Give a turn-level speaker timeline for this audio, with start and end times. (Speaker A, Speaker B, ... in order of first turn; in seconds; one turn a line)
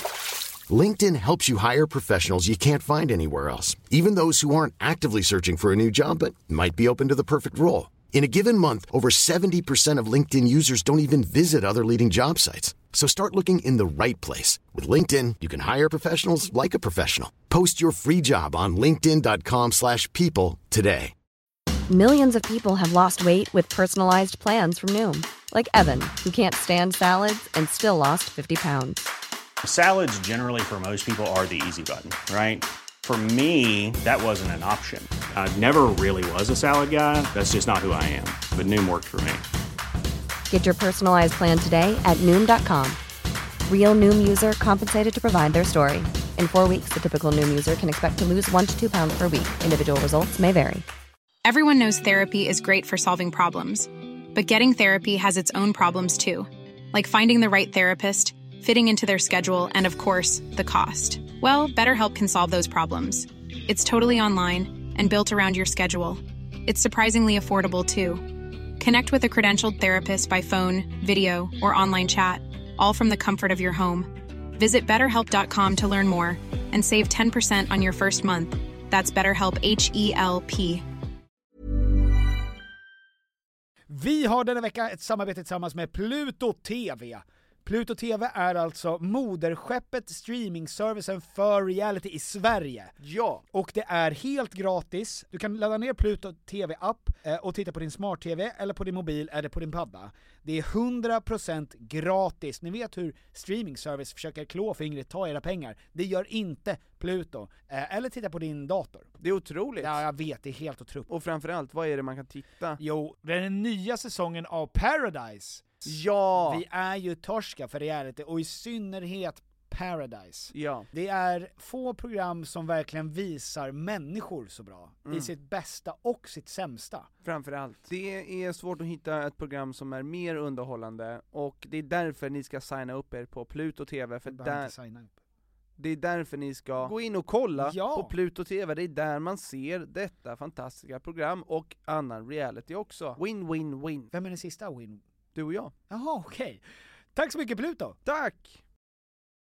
Speaker A: 0.7-21.1
Speaker B: 21.9-29.0
Speaker C: 29.6-39.4
Speaker B: 40.5-43.0
Speaker B: 43.7-50.8
Speaker D: 51.4-68.2
Speaker D: 68.8-80.8
Speaker E: 83.9-93.0
Speaker F: 93.0-93.4
Speaker E: 93.5-109.1
Speaker F: 109.2-110.0
Speaker E: 109.8-111.1
Speaker F: 111.1-112.8
Speaker E: 112.8-127.1
Speaker F: 115.8-116.6
Speaker F: 120.5-120.9
Speaker F: 125.0-125.3
Speaker F: 127.2-134.7
Speaker E: 134.2-135.1
Speaker F: 135.8-144.1
Speaker E: 137.6-138.1
Speaker E: 144.1-145.0
Speaker F: 145.3-145.7
Speaker E: 145.9-146.6
Speaker E: 147.1-148.0
Speaker F: 148.0-148.6